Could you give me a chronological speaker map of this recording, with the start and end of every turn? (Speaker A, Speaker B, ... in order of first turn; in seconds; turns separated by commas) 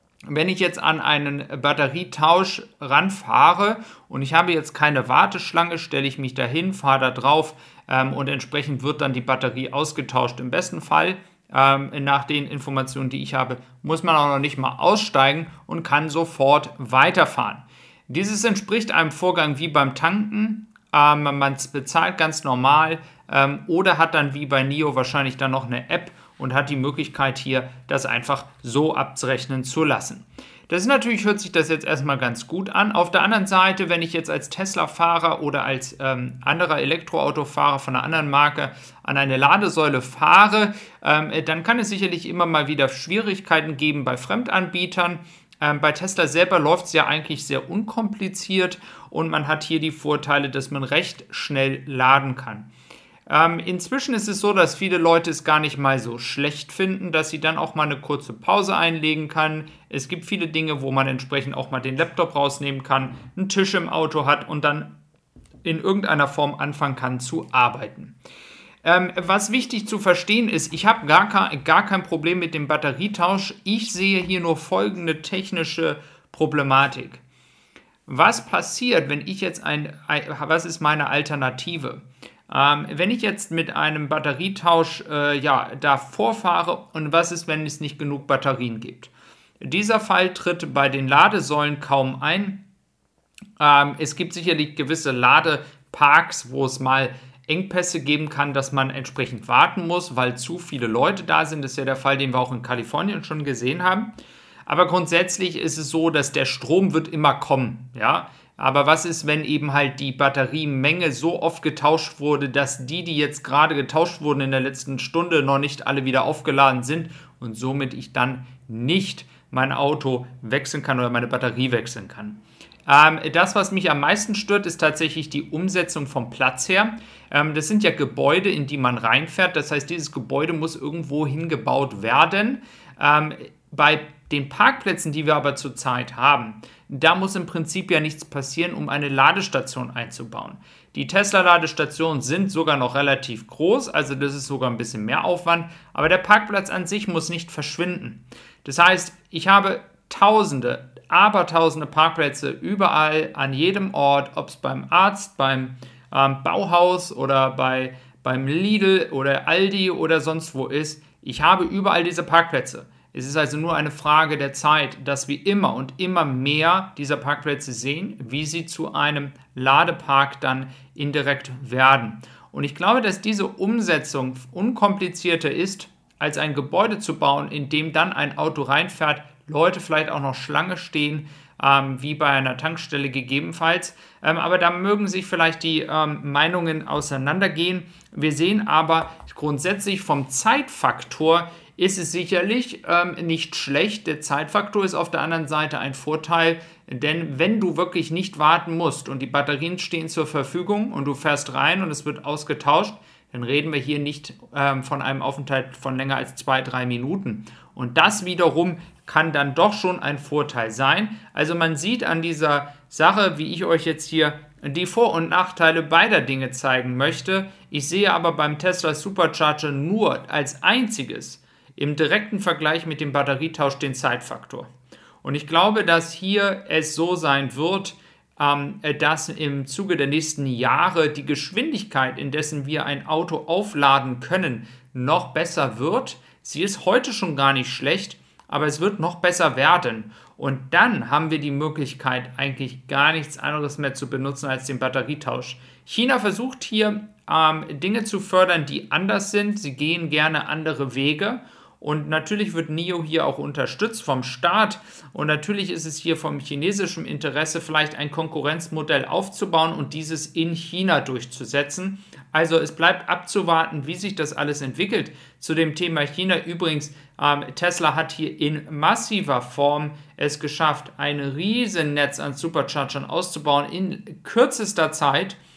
Speaker A: 0.3-52.7, Speaker A: 53.3-64.9, Speaker A: 65.6-68.1, Speaker A: 68.8-77.2, Speaker A: 78.0-92.6, Speaker A: 93.6-104.1, Speaker A: 104.7-224.7, Speaker A: 225.2-275.4